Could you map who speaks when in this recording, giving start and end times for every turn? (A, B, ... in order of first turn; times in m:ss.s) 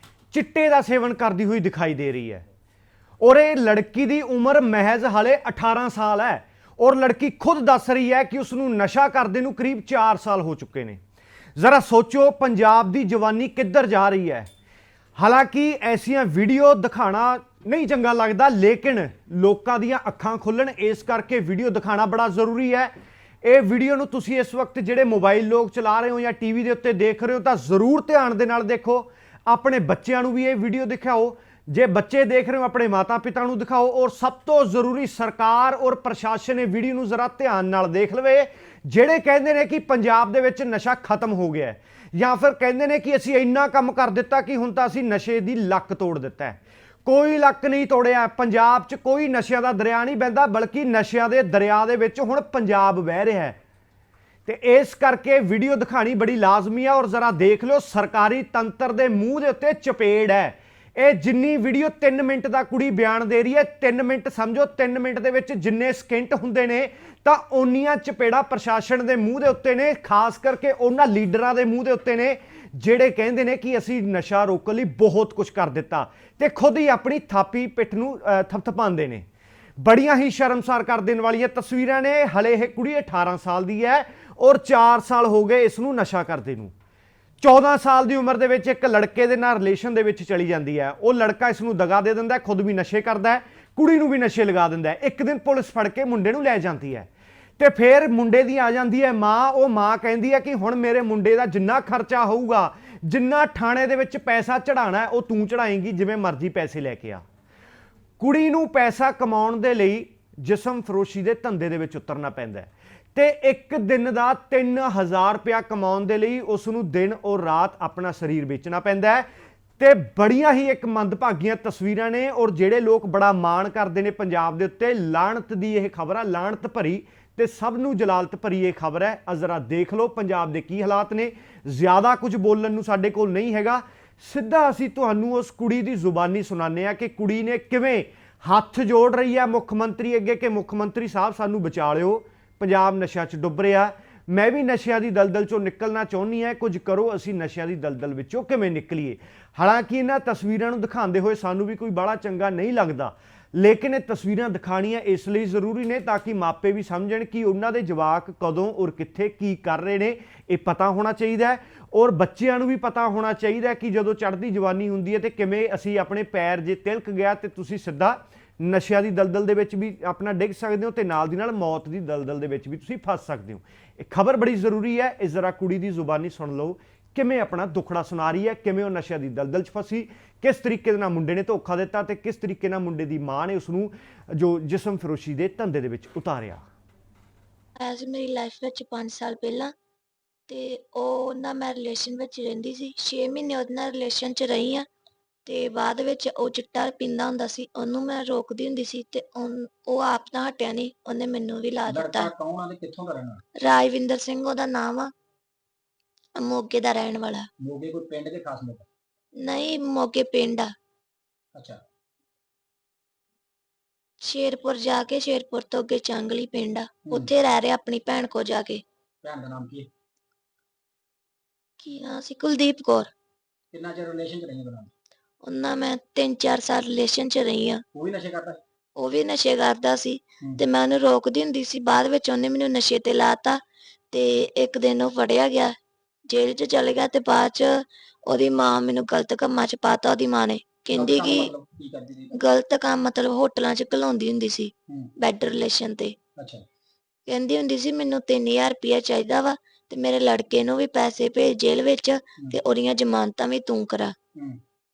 0:00.3-0:02.4 A
0:03.2-0:11.0 A
0:11.6-0:14.5 A
0:15.2-0:22.9 A
0:23.4-0:53.6 A
0:54.4-1:19.3 A
1:19.8-1:26.7 A
1:27.4-1:47.2 A
1:48.2-1:59.3 A
1:59.8-3:06.6 A
3:07.8-3:09.7 B
3:10.5-3:14.8 B
3:15.4-3:22.3 B
3:21.9-3:23.4 C
3:23.6-3:25.1 B
3:26.3-3:27.5 B
3:27.6-3:28.8 C
3:29.4-3:30.7 B
3:31.5-3:31.8 C
3:34.2-3:38.8 B
3:39.2-3:39.9 C
3:41.8-3:43.1 B
3:43.7-3:44.9 C
3:45.4-3:47.8 B
3:47.9-3:48.6 C
3:49.0-3:53.6 B
3:54.1-3:55.7 B
3:56.3-4:01.5 B
4:00.9-4:02.4 C
4:02.3-4:06.2 B
4:06.4-4:06.6 C
4:07.3-4:14.2 B
4:14.3-4:14.6 C